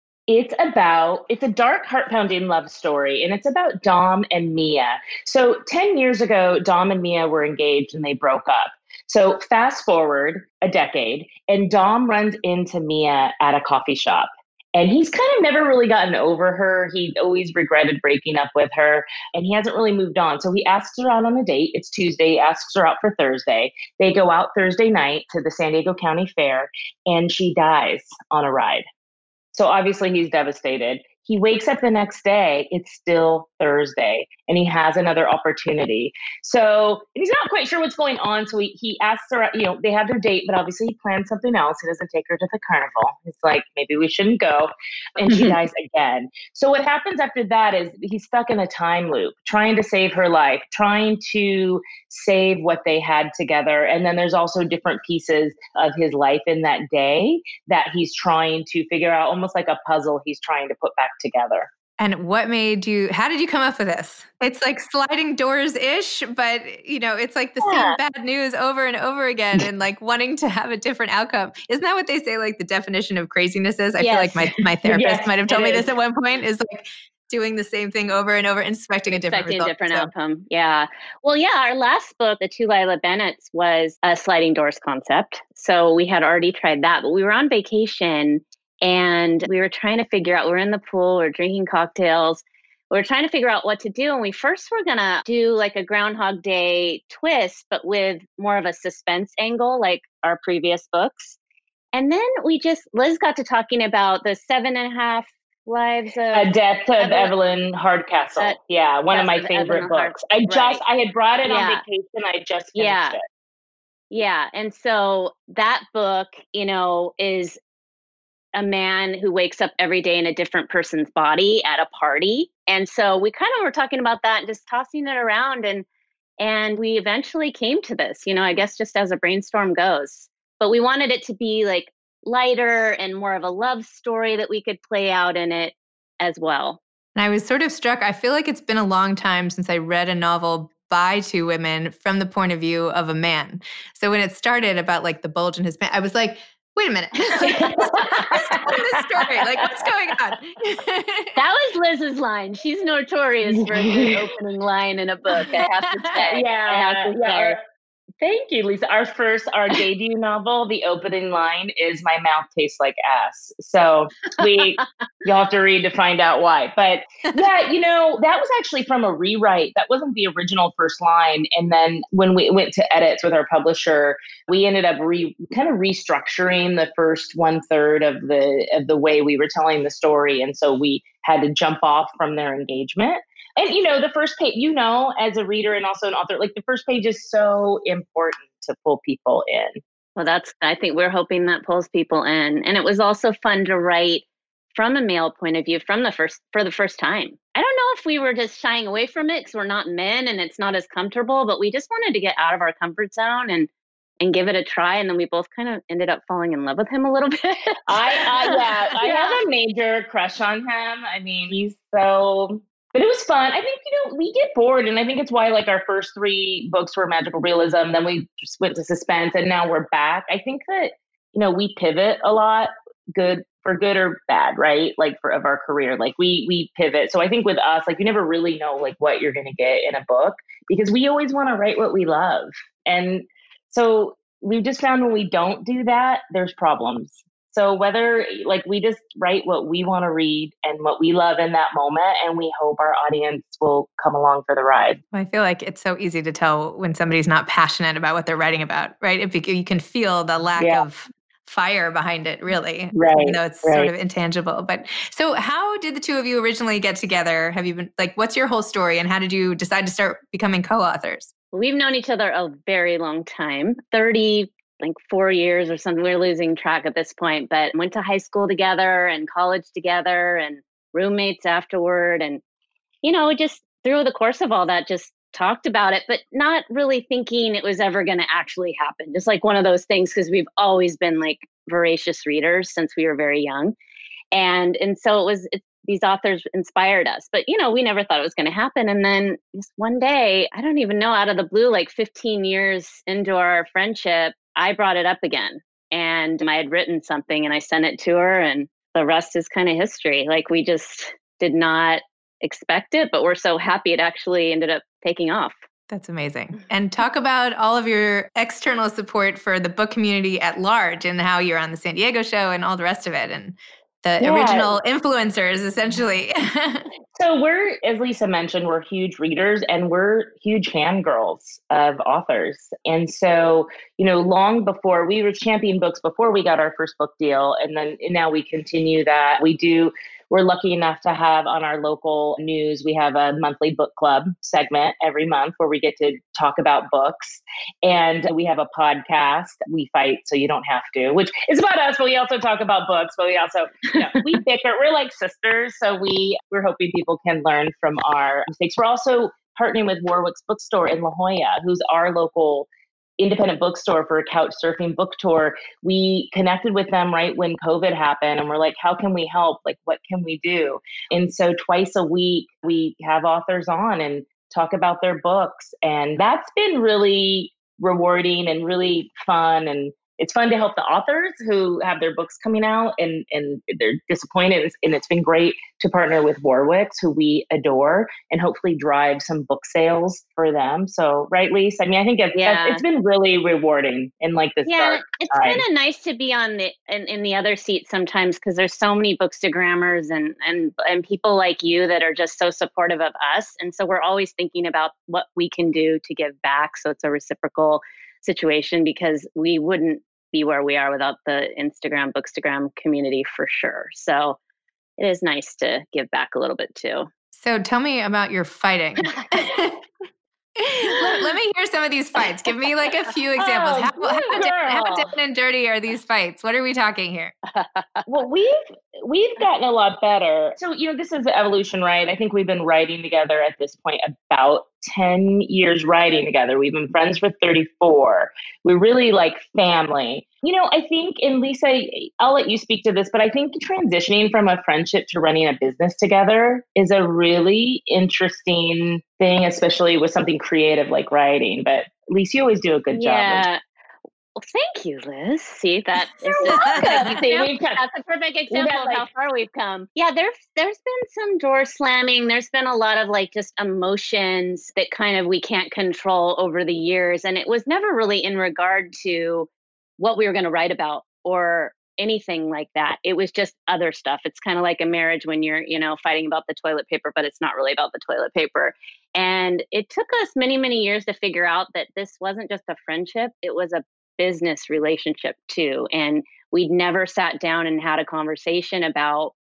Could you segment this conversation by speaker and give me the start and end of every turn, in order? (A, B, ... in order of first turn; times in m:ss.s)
0:00.3-0:28.8 A
0:29.5-1:01.7 A
0:45.3-0:45.6 B
1:02.0-1:20.1 C
1:07.6-1:08.0 A
1:14.0-1:14.4 B
1:14.8-1:15.8 A
1:19.1-1:41.4 B
1:41.9-1:47.3 B
1:46.3-1:53.2 A
1:49.1-1:50.8 B
1:51.4-1:51.8 B
1:52.8-1:53.2 B
1:54.1-1:57.6 B
1:58.5-2:05.8 B
2:06.4-2:16.8 B
2:17.1-2:31.3 C
2:27.4-2:28.8 A
2:31.4-2:37.6 B
2:33.5-2:34.3 A
2:36.3-2:37.6 A
2:38.2-3:09.8 A
3:10.2-3:23.7 B
3:24.2-3:29.4 B
3:27.9-4:05.0 A
4:05.1-4:21.3 C
4:10.6-4:10.8 A
4:12.9-4:13.9 A
4:21.5-4:32.4 B
4:33.0-4:43.8 B
4:44.3-5:05.6 B
5:05.9-5:16.8 C
5:14.2-5:14.7 A
5:17.1-6:25.6 A
6:22.3-6:22.8 B
6:24.6-6:44.4 B
6:45.0-6:47.1 B
6:47.3-6:49.8 C
6:50.6-6:57.3 C
6:53.4-6:55.0 A
6:57.5-6:58.0 B
6:58.1-7:23.5 A
7:22.9-7:23.6 B
7:24.4-7:59.3 B
7:26.2-7:27.8 A
7:26.6-7:27.1 C
7:28.5-7:29.0 A